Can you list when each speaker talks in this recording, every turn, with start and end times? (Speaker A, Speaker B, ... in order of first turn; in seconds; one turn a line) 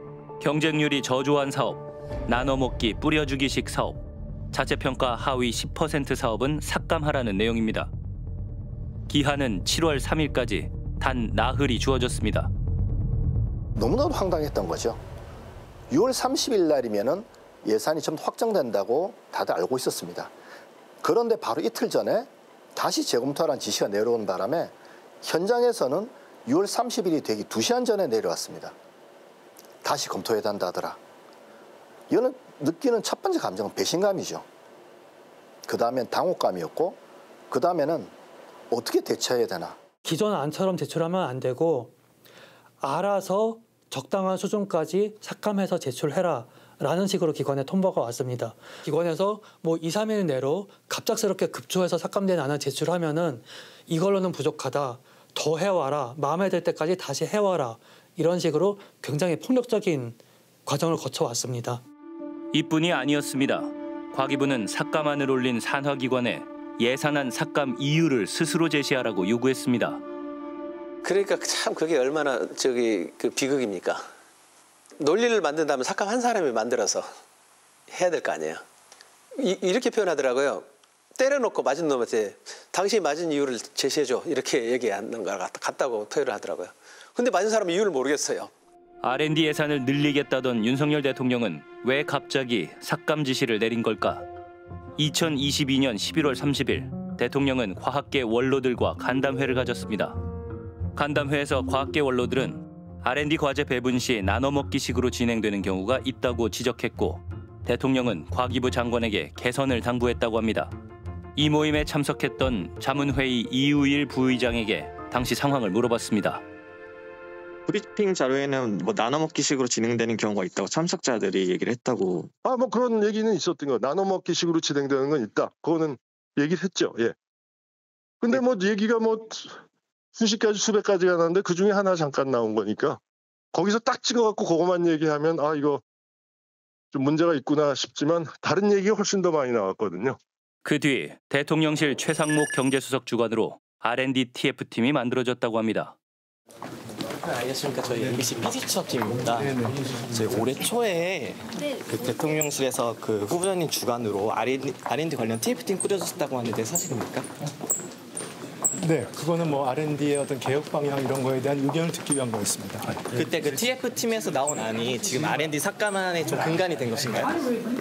Speaker A: 0.4-4.0
Speaker A: 4.5-7.9
Speaker A: 9.1-12.5
Speaker B: 13.7-15.0
Speaker B: 15.9-20.3
Speaker B: 21.0-28.7
Speaker B: 29.8-31.0
Speaker B: 32.1-34.4
Speaker B: 35.6-37.0
Speaker B: 37.5-38.1
Speaker B: 38.7-39.8
Speaker C: 40.0-41.9
Speaker C: 42.8-61.8
Speaker A: 62.5-70.0
Speaker D: 71.0-74.1
Speaker D: 75.0-77.1
Speaker D: 77.9-78.6
Speaker D: 79.3-88.5
Speaker A: 89.0-94.2
Speaker A: 95.0-100.2
Speaker A: 101.0-110.7
Speaker A: 111.3-116.4
Speaker E: 117.7-120.2
Speaker E: 120.7-121.0
Speaker F: 122.4-127.1
Speaker F: 128.2-129.6
Speaker F: 130.2-133.0
Speaker F: 133.5-135.8
Speaker F: 136.9-140.2
Speaker A: 140.6-145.9
Speaker G: 147.2-157.3
Speaker H: 158.8-162.9
Speaker G: 163.1-167.3